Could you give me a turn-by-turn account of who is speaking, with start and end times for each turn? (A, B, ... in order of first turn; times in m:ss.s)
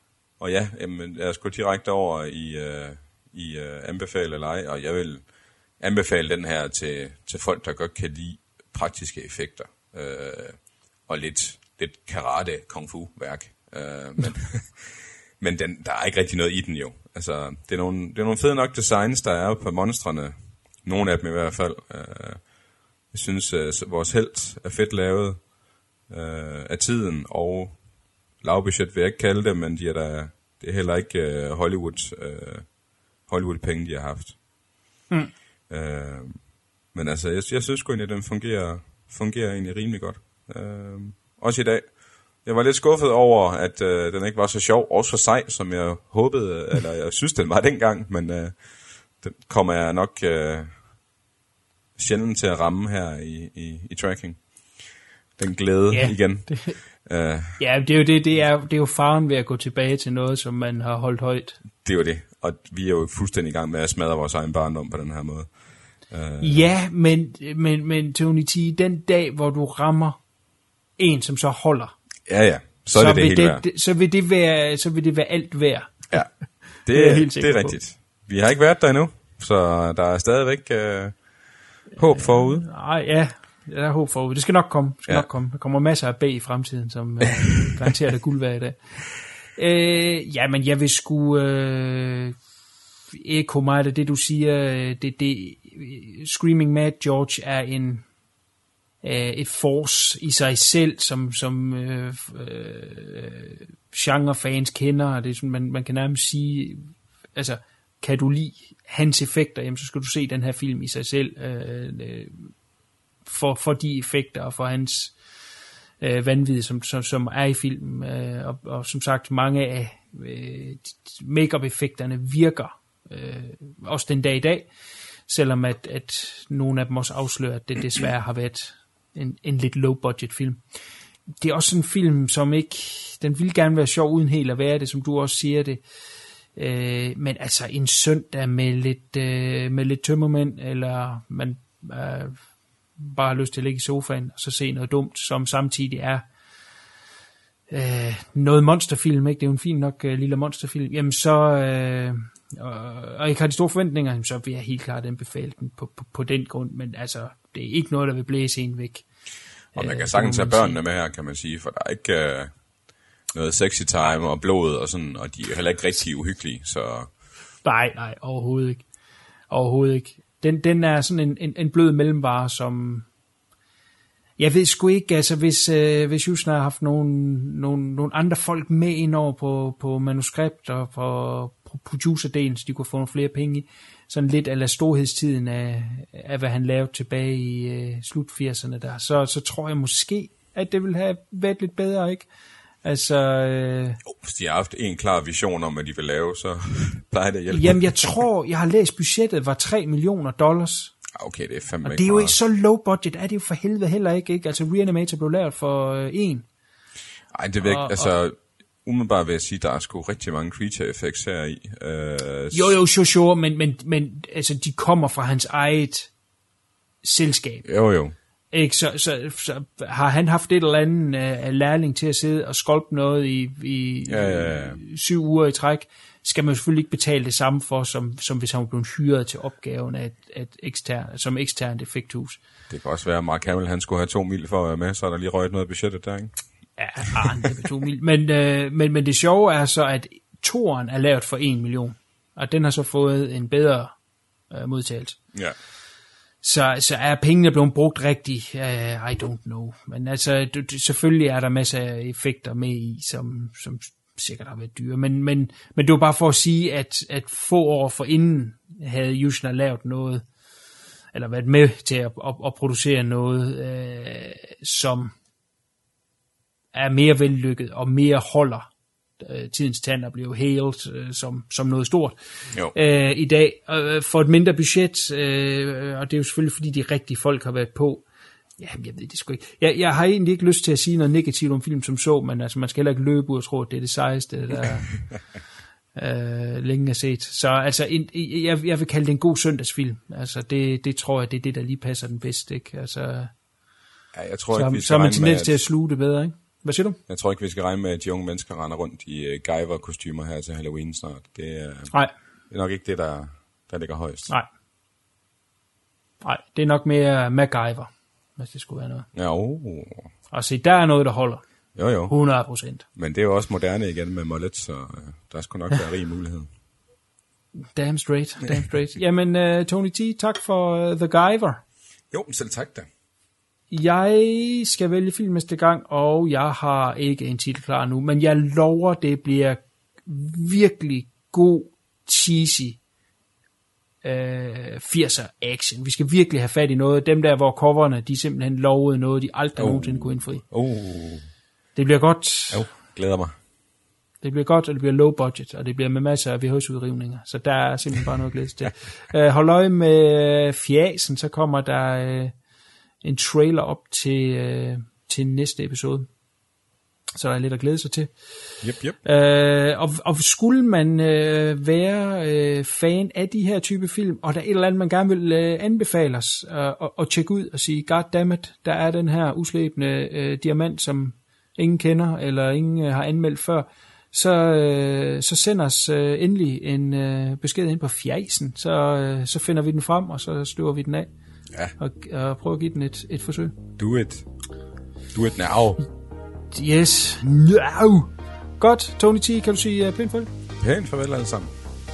0:00.4-0:34.4 A
0:35.7-0:51.0 A
0:52.0-0:57.6 A
0:55.9-1:01.6 B
1:01.8-1:06.7 A
1:06.4-1:10.2 B
1:11.0-1:12.0 B
1:12.3-1:13.6 A
1:12.9-1:17.8 B
1:16.1-1:22.7 A
1:22.0-1:32.4 B
1:33.1-1:38.1 B
1:39.0-1:52.5 B
1:53.2-1:55.2 B
1:56.0-2:04.7 B
2:05.3-2:10.6 B
2:11.4-2:15.8 B
2:16.4-2:26.3 B
2:27.7-2:40.8 B
2:39.8-2:47.1 A
2:47.6-2:53.1 B
2:54.4-3:14.0 B
3:14.0-3:18.2 A
3:17.5-3:21.0 B
3:21.2-3:22.4 A
3:21.8-3:26.5 B
3:27.3-3:32.8 A
3:27.6-3:28.1 B
3:32.5-3:36.2 B
3:37.0-3:37.8 B
3:37.6-3:38.2 A
3:38.5-3:52.4 B
3:44.1-3:44.8 A
3:52.7-3:56.5 A
3:56.8-4:05.4 B
4:06.4-4:20.3 B
4:21.1-4:25.1 B
4:26.7-4:32.2 B
4:32.7-4:38.1 B
4:38.6-4:45.3 B
4:45.9-4:53.3 B
4:54.1-4:55.6 A
4:54.5-4:57.0 B
4:57.1-5:04.3 A
5:06.2-5:09.1 B
5:09.1-5:10.1 A
5:10.3-5:12.9 B
5:11.8-5:12.3 A
5:12.8-5:16.5 A
5:17.8-5:21.6 B
5:22.1-5:22.9 A
5:23.7-5:32.8 B
5:34.0-5:40.4 B
5:39.6-5:41.3 A
5:41.8-5:42.7 B
5:42.5-5:43.3 A
5:44.2-5:52.4 B
5:53.0-5:56.1 B
5:57.2-6:21.1 B
5:58.6-5:59.0 A
6:21.7-6:23.6 B
6:23.8-6:24.3 A
6:25.1-6:25.8 A
6:26.5-6:30.3 B
6:30.6-6:31.5 A